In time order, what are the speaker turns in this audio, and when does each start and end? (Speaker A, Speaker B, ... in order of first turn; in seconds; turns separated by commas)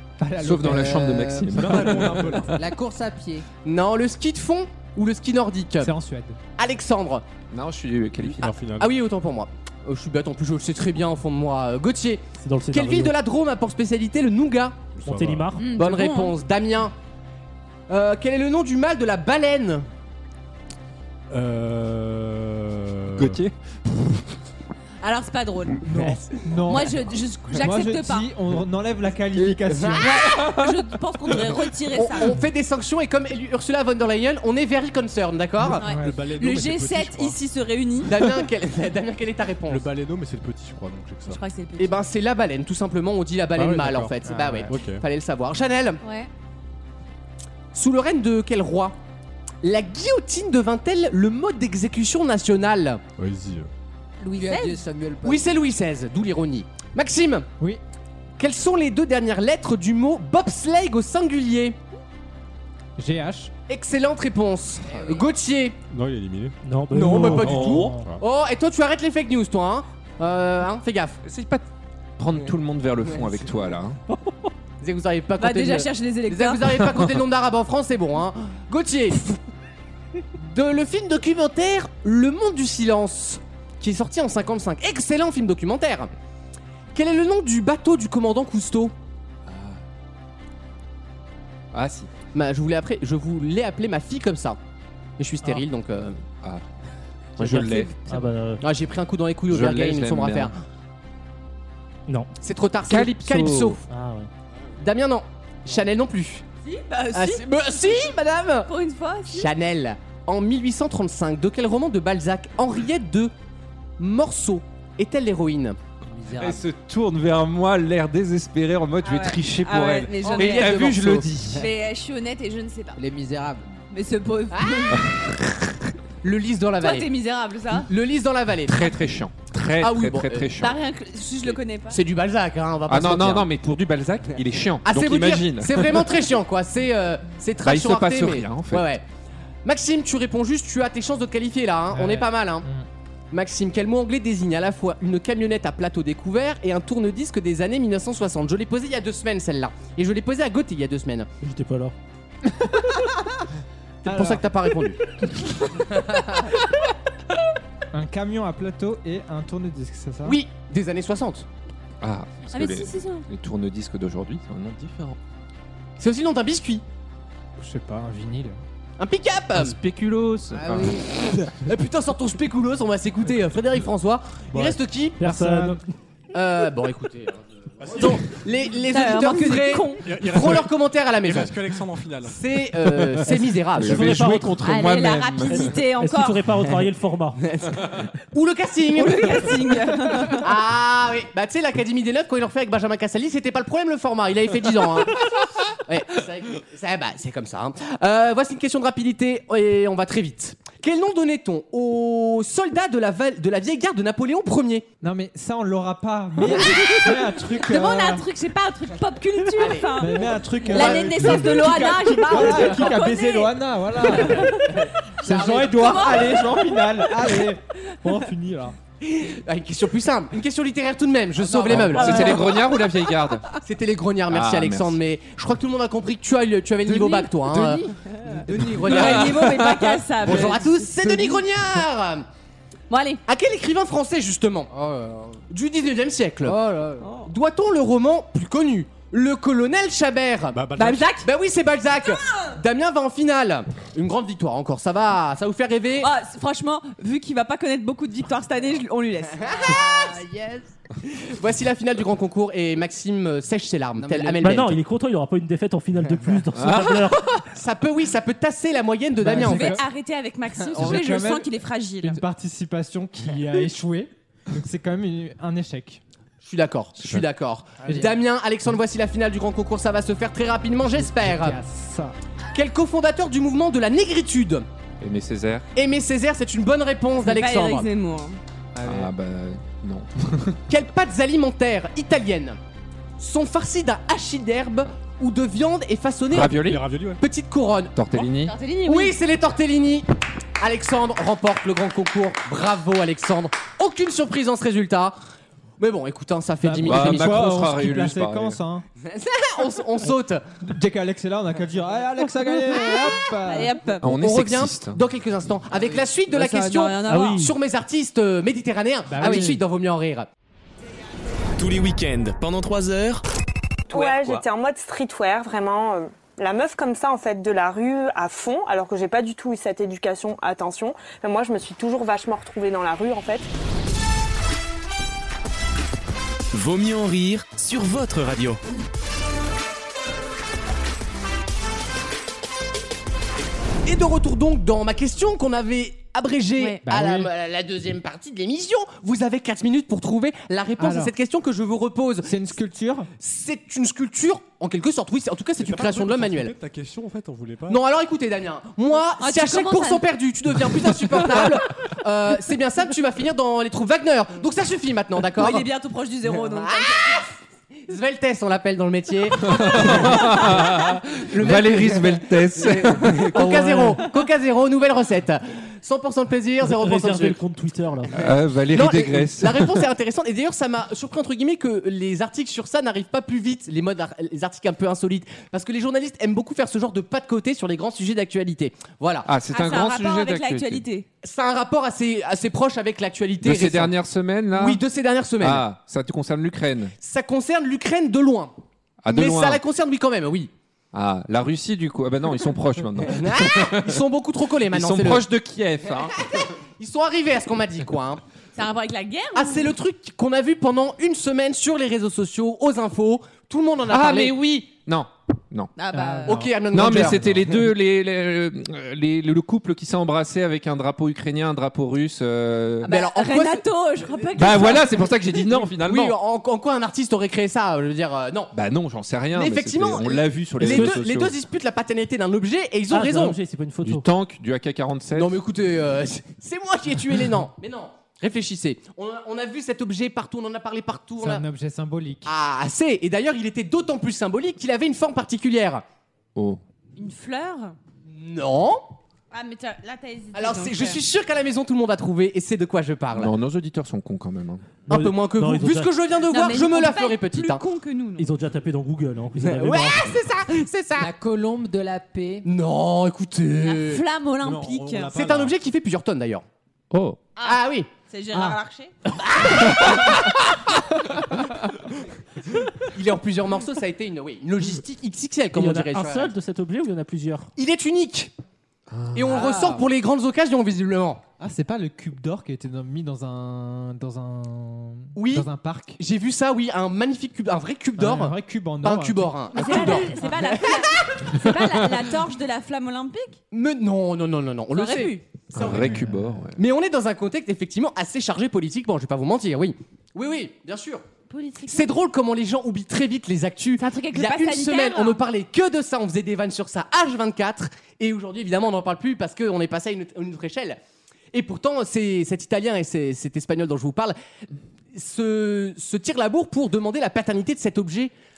Speaker A: 0.2-0.9, Speaker B: 0.4-2.4, Speaker C: 0.6-3.5, Speaker D: 1.4-2.7, Speaker E: 3.6-5.9, Speaker A: 5.8-6.4, Speaker E: 6.6-7.2, Speaker B: 7.5-8.5, Speaker D: 8.2-8.9, Speaker E: 8.8-14.8, Speaker F: 12.4-13.1, Speaker D: 15.0-15.5, Speaker F: 15.0-15.7, Speaker G: 15.6-16.3, Speaker E: 15.7-16.9, Speaker E: 17.9-19.9, Speaker D: 21.3-23.4, Speaker B: 23.2-23.5, Speaker G: 25.0-25.9, Speaker A: 25.8-30.2, Speaker G: 26.6-28.3, Speaker G: 29.9-32.4, Speaker B: 30.2-30.8, Speaker E: 31.9-35.9, Speaker D: 35.6-37.4, Speaker G: 35.7-38.1, Speaker A: 35.8-36.2, Speaker E: 38.0-39.9, Speaker D: 39.7-41.4, Speaker G: 41.2-42.0, Speaker E: 41.8-46.0, Speaker D: 43.5-45.0, Speaker A: 44.2-44.7, Speaker G: 46.0-46.3, Speaker E: 47.7-49.0, Speaker E: 49.6-53.0, Speaker D: 53.2-53.7, Speaker C: 54.2-55.4, Speaker G: 54.4-54.8, Speaker E: 55.2-57.5, Speaker E: 58.4-61.8, Speaker A: 63.0-63.5, Speaker E: 63.7-65.8, Speaker C: 64.9-65.2, Speaker D: 65.9-68.2, Speaker F: 66.6-68.0, Speaker E: 67.0-71.2, Speaker A: 67.2-68.0, Speaker B: 71.2-71.6, Speaker B: 72.2-74.0, Speaker E: 74.8-79.4, Speaker G: 75.4-77.0, Speaker E: 80.4-86.1, Speaker E: 86.9-88.9, Speaker B: 89.5-89.8, Speaker B: 91.7-92.1, Speaker E: 92.3-94.6, Speaker E: 95.2-96.2, Speaker B: 97.4-98.2, Speaker E: 97.4-97.9, Speaker F: 97.4-98.6, Speaker E: 98.6-100.5, Speaker B: 99.5-100.5, Speaker E: 102.4-103.8, Speaker B: 102.8-103.8, Speaker F: 103.8-104.3, Speaker E: 104.8-106.4, Speaker G: 106.6-108.1, Speaker E: 107.1-108.7, Speaker G: 108.7-109.5, Speaker E: 109.3-113.3, Speaker E: 114.0-115.8, Speaker C: 116.0-116.7, Speaker B: 116.4-121.6, Speaker G: 119.0-120.8, Speaker E: 120.2-121.6, Speaker G: 121.5-123.0, Speaker C: 123.0-123.7, Speaker G: 123.9-125.0, Speaker E: 124.5-125.1, Speaker B: 125.0-125.3, Speaker E: 126.2-127.1, Speaker G: 126.8-127.9, Speaker E: 127.7-128.9, Speaker B: 128.7-130.8, Speaker E: 129.8-130.5, Speaker G: 130.6-132.0, Speaker E: 131.9-133.5, Speaker B: 132.9-136.1, Speaker E: 134.8-139.0, Speaker B: 137.6-138.9, Speaker E: 139.6-142.7, Speaker A: 141.9-142.8, Speaker E: 143.3-151.3, Speaker F: 151.4-151.9, Speaker E: 154.0-155.0, Speaker A: 154.0-154.4, Speaker A: 157.9-160.4, Speaker E: 160.2-161.4, Speaker B: 162.0-165.2, Speaker G: 162.5-163.2, Speaker E: 166.0-166.8, Speaker A: 167.6-168.6, Speaker E: 169.0-169.8, Speaker B: 169.5-171.0, Speaker C: 170.5-171.1, Speaker E: 171.3-175.2, Speaker D: 174.5-174.8, Speaker F: 175.2-175.8, Speaker A: 175.2-175.8, Speaker E: 176.3-181.5, Speaker D: 177.8-178.4, Speaker G: 178.9-180.0, Speaker D: 180.0-183.2, Speaker E: 182.2-184.2, Speaker F: 183.2-184.8, Speaker B: 183.8-185.7, Speaker G: 184.6-186.4, Speaker F: 185.4-187.4, Speaker E: 188.3-189.6, Speaker G: 188.9-190.5, Speaker E: 190.3-204.9, Speaker A: 205.0-208.3, Speaker G: 207.6-214.7, Speaker E: 209.6-211.5, Speaker A: 209.9-214.7, Speaker A: 215.2-218.8, Speaker E: 215.3-215.9, Speaker G: 215.3-216.9, Speaker E: 219.0-222.7, Speaker G: 221.4-222.6, Speaker B: 221.7-223.5, Speaker E: 223.6-229.6, Speaker B: 224.3-225.0, Speaker C: 226.8-228.5, Speaker B: 228.8-230.1, Speaker G: 228.8-231.2, Speaker E: 230.2-232.2, Speaker C: 231.1-231.4, Speaker G: 232.9-233.2, Speaker E: 233.3-234.7, Speaker C: 234.7-235.4, Speaker E: 235.5-236.6, Speaker C: 236.4-237.1, Speaker G: 237.0-237.3, Speaker E: 237.2-240.6, Speaker D: 240.5-241.2, Speaker G: 240.8-241.3, Speaker E: 241.2-246.1, Speaker G: 246.0-249.8, Speaker C: 249.4-250.7, Speaker E: 251.1-254.8, Speaker C: 254.0-254.6, Speaker F: 254.4-257.3, Speaker B: 256.5-257.4, Speaker E: 257.5-259.8, Speaker A: 259.2-259.9, Speaker G: 259.3-262.2, Speaker A: 260.7-261.5, Speaker A: 262.0-266.0, Speaker E: 266.4-271.6, Speaker A: 267.8-268.2, Speaker A: 271.1-272.1, Speaker E: 272.5-274.7, Speaker B: 275.0-275.6, Speaker E: 275.7-277.9, Speaker G: 277.2-278.4, Speaker A: 278.8-279.1, Speaker B: 278.8-280.6, Speaker E: 280.7-282.6, Speaker E: 283.2-286.6, Speaker B: 286.3-286.8, Speaker D: 286.5-287.2, Speaker E: 287.2-288.0, Speaker B: 287.9-288.6, Speaker G: 288.1-289.2, Speaker E: 288.8-290.1, Speaker E: 290.6-295.1, Speaker E: 295.8-297.6, Speaker A: 296.6-298.8, Speaker B: 296.8-298.6, Speaker E: 299.0-300.4, Speaker A: 300.6-303.8, Speaker G: 302.9-304.1, Speaker B: 304.0-305.0, Speaker E: 304.1-310.3, Speaker G: 306.3-307.4, Speaker F: 307.1-307.5, Speaker A: 309.1-309.6, Speaker H: 311.6-313.2, Speaker I: 313.9-323.5, Speaker H: 326.5-328.6, Speaker E: 333.9-342.4, Speaker A: 336.8-337.3, Speaker A: 340.8-341.1, Speaker A: 342.2-343.1, Speaker E: 343.2-346.5, Speaker D: 345.6-347.8, Speaker E: 347.7-355.7, Speaker G: 349.2-350.0, Speaker G: 355.4-357.3, Speaker E: 356.5-357.2, Speaker E: 357.9-367.4, Speaker B: 359.4-363.6, Speaker F: 363.5-363.9, Speaker F: 366.6-368.3, Speaker B: 368.1-369.8, Speaker E: 368.7-379.3, Speaker B: 379.2-380.8, Speaker G: 379.5-381.1, Speaker E: 381.2-383.9, Speaker B: 383.4-384.8, Speaker E: 384.5-385.6, Speaker B: 385.4-386.9, Speaker E: 387.0-388.5, Speaker B: 389.0-389.6, Speaker E: 389.1-390.5, Speaker B: 390.9-394.0, Speaker E: 393.1-395.2, Speaker B: 394.7-396.3, Speaker E: 396.3-398.2, Speaker G: 398.6-399.7, Speaker E: 399.3-404.4, Speaker B: 403.9-405.7, Speaker G: 405.8-406.5, Speaker A: 405.9-406.5, Speaker E: 406.2-407.4, Speaker B: 406.6-412.9, Speaker G: 412.8-415.1, Speaker E: 412.9-413.6, Speaker B: 414.3-416.2, Speaker E: 415.8-418.5, Speaker B: 418.5-421.3, Speaker E: 419.3-423.4, Speaker F: 420.6-421.0, Speaker F: 422.9-424.1, Speaker B: 423.8-425.4, Speaker E: 425.1-431.4, Speaker A: 431.2-432.3, Speaker E: 432.2-435.8, Speaker G: 436.9-437.8, Speaker E: 438.1-438.9, Speaker G: 439.3-441.0, Speaker E: 440.3-443.3, Speaker B: 443.1-444.8, Speaker F: 444.9-445.9, Speaker E: 444.9-447.6, Speaker G: 446.3-448.3, Speaker F: 448.2-450.2, Speaker E: 449.4-451.1, Speaker C: 451.0-452.5, Speaker E: 452.4-454.0, Speaker G: 453.6-455.1, Speaker D: 454.4-455.5, Speaker E: 455.1-456.4, Speaker B: 456.9-457.2, Speaker G: 457.4-458.9, Speaker E: 457.4-457.9, Speaker E: 459.4-460.1, Speaker E: 462.9-466.3, Speaker F: 465.5-467.5, Speaker E: 467.6-468.3, Speaker B: 468.9-469.5, Speaker E: 469.1-471.2, Speaker C: 469.3-469.8, Speaker A: 471.4-476.0, Speaker E: 475.1-475.5, Speaker E: 476.0-481.8, Speaker A: 478.0-479.9, Speaker G: 479.5-483.4, Speaker E: 483.5-491.0, Speaker G: 484.7-485.2, Speaker B: 485.5-486.6, Speaker G: 491.3-491.9, Speaker E: 491.7-500.8, Speaker G: 493.8-495.2, Speaker E: 501.3-504.1, Speaker E: 504.9-508.1